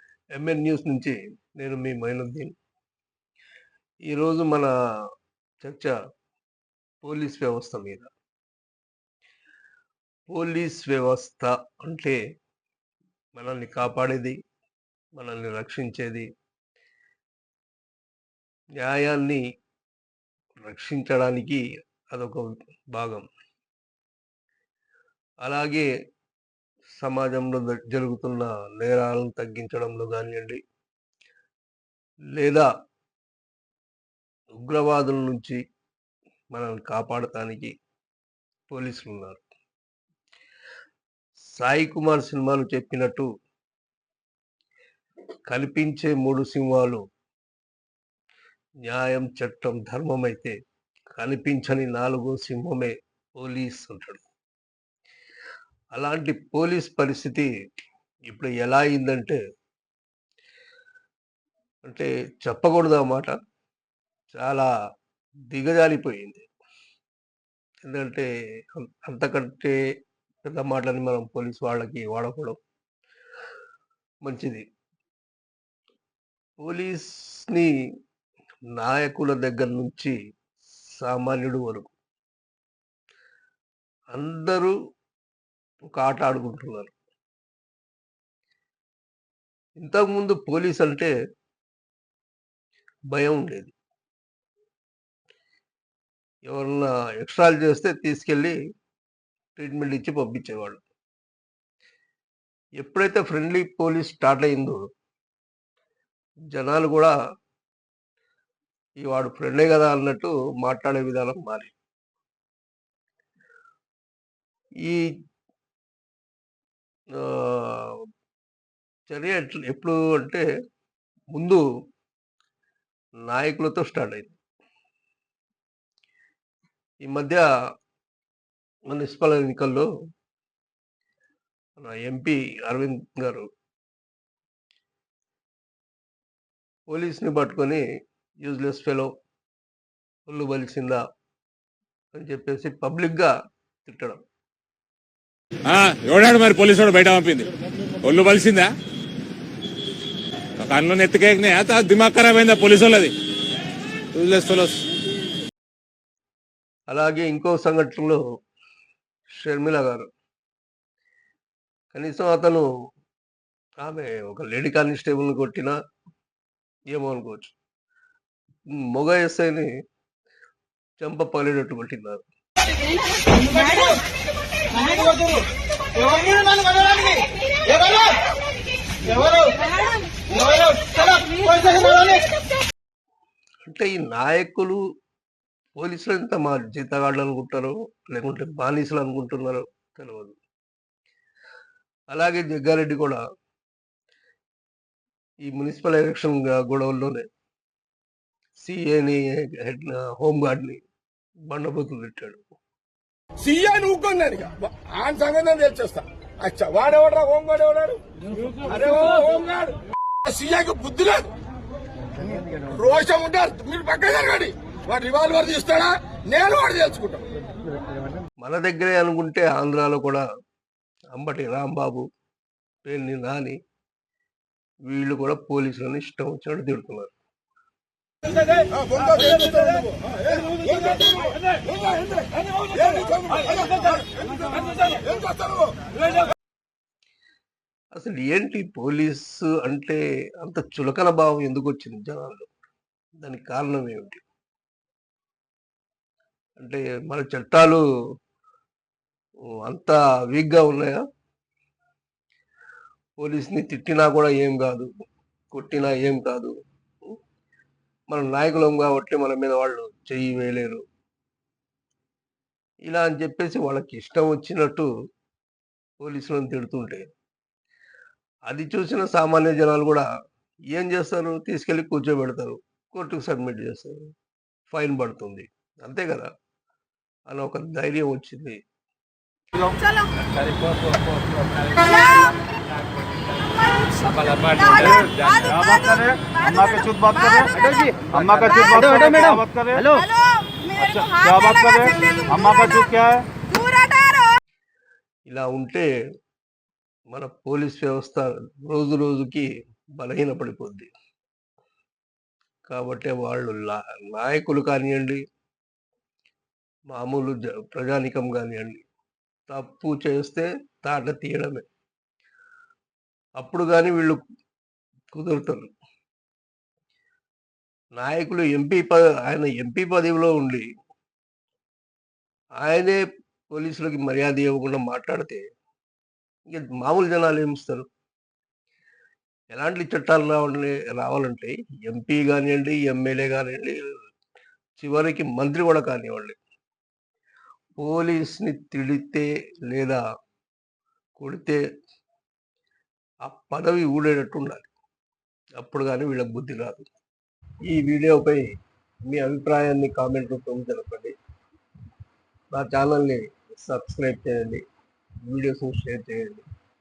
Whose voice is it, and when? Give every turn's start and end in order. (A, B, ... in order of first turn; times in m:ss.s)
0:00.4-0:02.5 A
0:04.1-0:04.7 A
0:05.6-0:06.0 A
0:07.0-0:08.1 A
0:10.3-0:12.2 A
0:13.4-0:14.4 A
0:15.2-0:16.3 A
0:18.8-0:19.4 A
0:20.6-0:23.2 A
0:25.4-0:25.9 A
0:27.0-0:30.6 A
0:32.4-0:32.7 A
0:34.6-0:35.6 A
0:36.5-0:37.7 A
0:38.7-0:39.4 A
0:41.6-0:43.3 A
0:45.5-0:47.0 A
0:48.9-0:50.6 A
0:51.2-0:54.2 A
0:56.0-0:57.5 A
0:58.3-0:59.4 A
1:01.9-1:03.3 A
1:04.3-1:04.7 A
1:05.5-1:06.4 A
1:07.8-1:09.8 A
1:10.4-1:12.6 A
1:14.2-1:14.6 A
1:16.6-1:17.7 A
1:18.8-1:20.2 A
1:21.0-1:21.9 A
1:24.1-1:24.7 A
1:25.9-1:26.9 A
1:29.8-1:31.1 A
1:33.1-1:33.8 A
1:36.5-1:38.6 A
1:39.6-1:40.8 A
1:42.8-1:44.8 A
1:46.5-1:47.1 A
1:49.0-1:51.7 A
1:57.2-1:57.9 A
1:59.1-2:00.4 A
2:01.3-2:01.6 A
2:03.3-2:04.3 A
2:07.0-2:07.5 A
2:08.9-2:09.9 A
2:11.8-2:13.5 A
2:16.9-2:17.8 A
2:18.4-2:19.1 A
2:20.3-2:21.0 A
2:22.1-2:23.3 A
2:23.8-2:24.2 A
2:25.7-2:27.5 B
2:28.0-2:28.7 B
2:30.6-2:33.1 B
2:34.2-2:34.8 B
2:36.9-2:38.2 A
2:39.4-2:40.1 A
2:41.9-2:42.6 A
2:43.8-2:45.7 A
2:46.9-2:47.6 A
2:48.8-2:49.7 A
2:51.0-2:52.2 A
2:54.9-2:55.3 C
2:56.0-2:58.0 C
2:59.1-2:59.6 C
3:00.3-3:02.2 C
3:03.7-3:04.8 A
3:05.8-3:10.4 A
3:12.1-3:13.2 A
3:15.4-3:17.2 A
3:18.6-3:20.8 A
3:21.5-3:22.4 A
3:23.4-3:28.0 D
3:28.6-3:31.3 D
3:32.7-3:37.3 D
3:38.4-3:40.2 A
3:41.2-3:42.0 A
3:42.8-3:43.6 A
3:44.9-3:47.1 A
3:48.4-3:55.9 D
3:58.0-4:02.5 A
4:03.2-4:04.2 A
4:06.6-4:07.8 A
4:09.7-4:11.0 A
4:13.2-4:14.9 A
4:15.5-4:16.5 A
4:18.1-4:20.8 A
4:22.9-4:24.9 A
4:26.0-4:27.0 A
4:28.5-4:30.0 A
4:30.7-4:34.0 A
4:34.7-4:36.3 A
4:37.3-4:38.6 A
4:40.7-4:41.1 B
4:43.9-4:45.5 B
4:44.8-4:50.0 E
4:47.7-4:48.1 C
4:49.0-4:49.4 C
4:50.7-4:53.3 E
4:55.3-4:55.9 A
4:57.1-4:59.5 A
5:00.0-5:00.9 A
5:02.7-5:05.2 A
5:06.9-5:08.8 A
5:09.5-5:11.6 A
5:13.4-5:14.2 A
5:15.1-5:15.7 A
5:18.0-5:20.7 A
5:22.6-5:25.4 A
5:26.5-5:27.9 A
5:29.5-5:33.8 A
5:34.8-5:36.4 A
5:37.8-5:40.0 A
5:41.2-5:41.6 A
5:43.3-5:44.7 A
5:45.6-5:46.9 A
5:47.7-5:48.4 A
5:49.0-5:51.1 A
5:52.5-5:54.6 A
5:55.3-5:56.4 A